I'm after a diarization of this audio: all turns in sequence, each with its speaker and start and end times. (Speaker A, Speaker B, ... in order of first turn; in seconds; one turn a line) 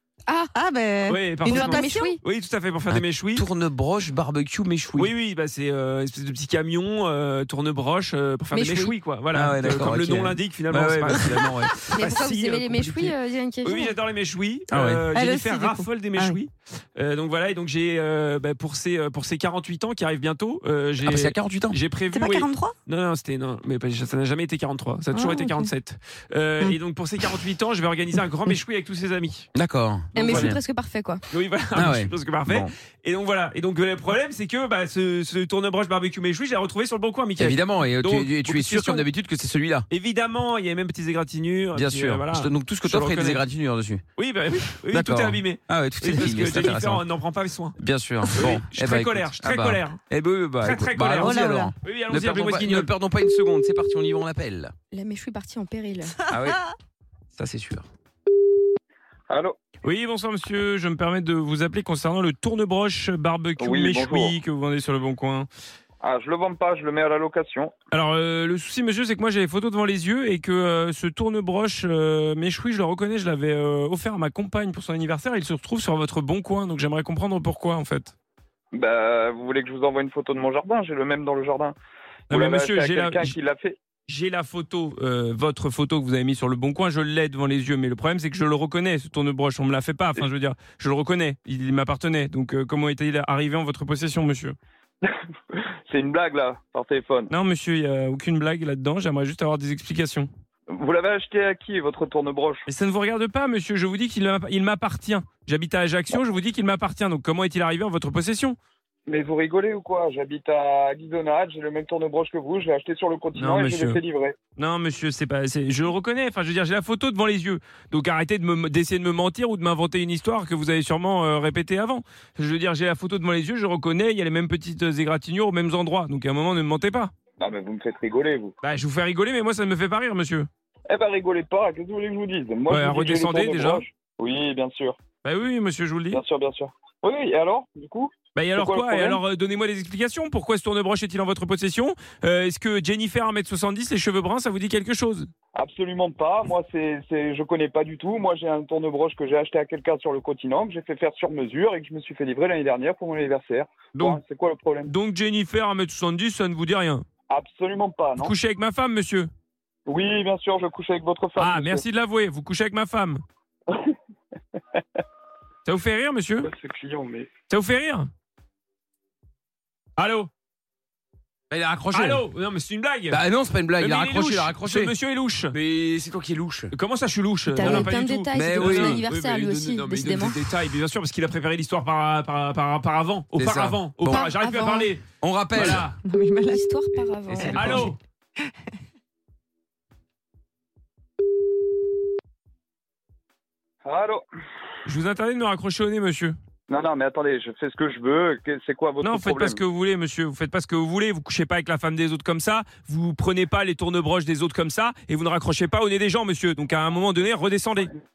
Speaker A: 0.3-0.5
Speaker B: 0.5-2.1
Speaker C: 1.1-3.4
Speaker A: 1.5-2.2
Speaker D: 2.9-5.1
Speaker C: 4.9-29.5
Speaker A: 8.5-8.9
Speaker D: 9.3-11.7
Speaker A: 11.9-13.9
Speaker D: 14.7-15.0
Speaker B: 15.1-16.4
Speaker D: 21.0-21.8
Speaker B: 22.1-22.7
Speaker B: 25.1-25.7
Speaker D: 29.5-30.6
Speaker A: 30.1-31.2
Speaker C: 30.2-30.5
Speaker C: 31.3-39.0
Speaker D: 31.7-32.7
Speaker D: 37.4-39.9
Speaker C: 39.9-43.4
Speaker D: 41.7-44.0
Speaker C: 44.2-47.7
Speaker D: 44.9-47.0
Speaker D: 47.8-54.7
Speaker C: 48.3-50.0
Speaker C: 50.6-52.9
Speaker B: 51.1-51.7
Speaker A: 54.9-56.1
Speaker D: 56.3-56.6
Speaker B: 56.3-56.6
Speaker D: 57.3-57.9
Speaker E: 59.3-59.5
Speaker C: 59.8-65.5
Speaker E: 63.6-64.3
Speaker E: 66.0-67.7
Speaker C: 67.9-78.1
Speaker E: 78.7-81.7
Speaker C: 82.3-83.3
Speaker E: 82.3-83.8
Speaker C: 84.1-94.5
Speaker E: 95.9-97.3
Speaker C: 97.3-100.3
Speaker E: 100.7-102.6
Speaker C: 102.7-108.6
Speaker E: 109.1-114.4
Speaker C: 113.3-114.0
Speaker C: 114.5-127.1
Speaker E: 127.4-128.5
Speaker C: 128.6-130.5
Speaker E: 130.9-135.0
Speaker C: 132.7-133.8
Speaker C: 135.2-136.2
Speaker E: 136.1-139.2
Speaker C: 138.3-145.3
Speaker E: 145.5-154.9
Speaker C: 153.9-154.2
Speaker C: 154.9-157.0
Speaker E: 157.3-158.3
Speaker C: 158.2-159.3
Speaker E: 159.9-161.8
Speaker C: 161.4-163.2
Speaker C: 165.7-166.5
Speaker E: 166.4-167.3
Speaker C: 167.5-168.1
Speaker C: 170.0-170.3
Speaker D: 171.5-172.2
Speaker C: 171.9-173.2
Speaker D: 173.1-174.9
Speaker C: 173.8-175.5
Speaker D: 175.5-176.7
Speaker C: 176.7-185.9
Speaker A: 177.5-180.4
Speaker D: 177.6-179.0
Speaker D: 183.3-184.3
Speaker A: 184.1-184.9
Speaker D: 185.2-185.9
Speaker B: 186.0-186.7
Speaker A: 186.5-187.9
Speaker D: 187.3-187.9
Speaker C: 187.5-188.0
Speaker E: 193.8-194.2
Speaker C: 194.8-196.3
Speaker E: 196.7-199.6
Speaker C: 199.0-207.9